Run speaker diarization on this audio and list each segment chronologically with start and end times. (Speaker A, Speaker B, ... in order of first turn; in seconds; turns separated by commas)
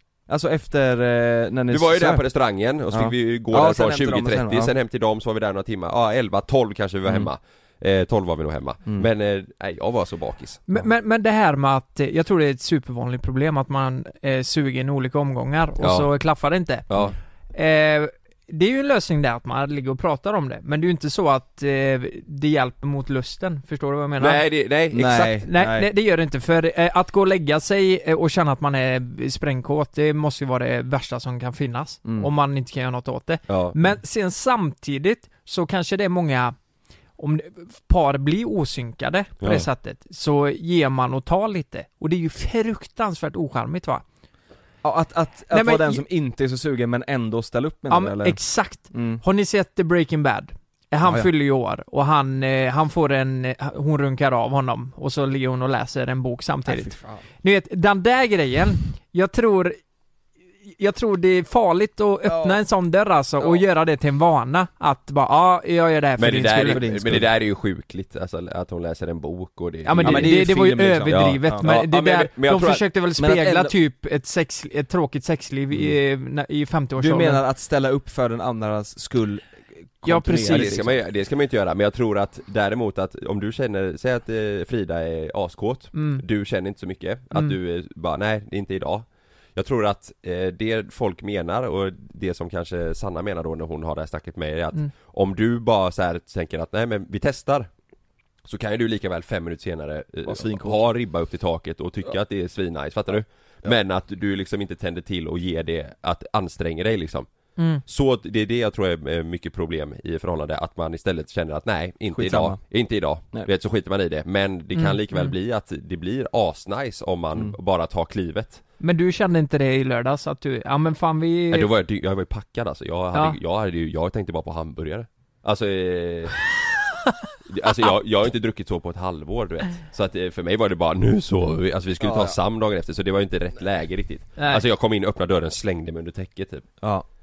Speaker A: 0.3-2.2, Speaker B: 1.7-10.6, Speaker A: 2.9-4.7, Speaker C: 10.7-16.9, Speaker B: 15.8-16.1, Speaker B: 16.9-17.2, Speaker C: 17.5-24.4, Speaker B: 24.2-25.4, Speaker A: 24.9-25.9, Speaker C: 25.4-36.6, Speaker B: 33.5-33.8, Speaker C: 37.2-44.0, Speaker B: 39.4-39.7, Speaker A: 44.8-48.4, Speaker C: 45.5-46.0, Speaker C: 47.9-59.8, Speaker A: 48.9-49.2, Speaker A: 51.0-51.3, Speaker A: 56.7-57.2, Speaker C: 60.7-66.8, Speaker A: 62.2-62.6, Speaker B: 66.2-70.5, Speaker A: 66.7-67.3, Speaker C: 69.8-77.4, Speaker A: 70.0-71.7, Speaker B: 71.1-72.8, Speaker A: 73.2-73.8, Speaker A: 77.0-81.0, Speaker C: 80.0-80.8, Speaker B: 80.4-97.7, Speaker C: 85.9-86.2, Speaker B: 98.5-107.3, Speaker A: 100.2-100.8, Speaker C: 107.6-107.8, Speaker B: 107.8-118.6, Speaker A: 112.1-112.6, Speaker C: 114.8-115.3, Speaker C: 118.8-121.7, Speaker B: 121.5-126.4, Speaker B: 127.5-136.7, Speaker A: 132.0-132.4, Speaker C: 134.4-134.6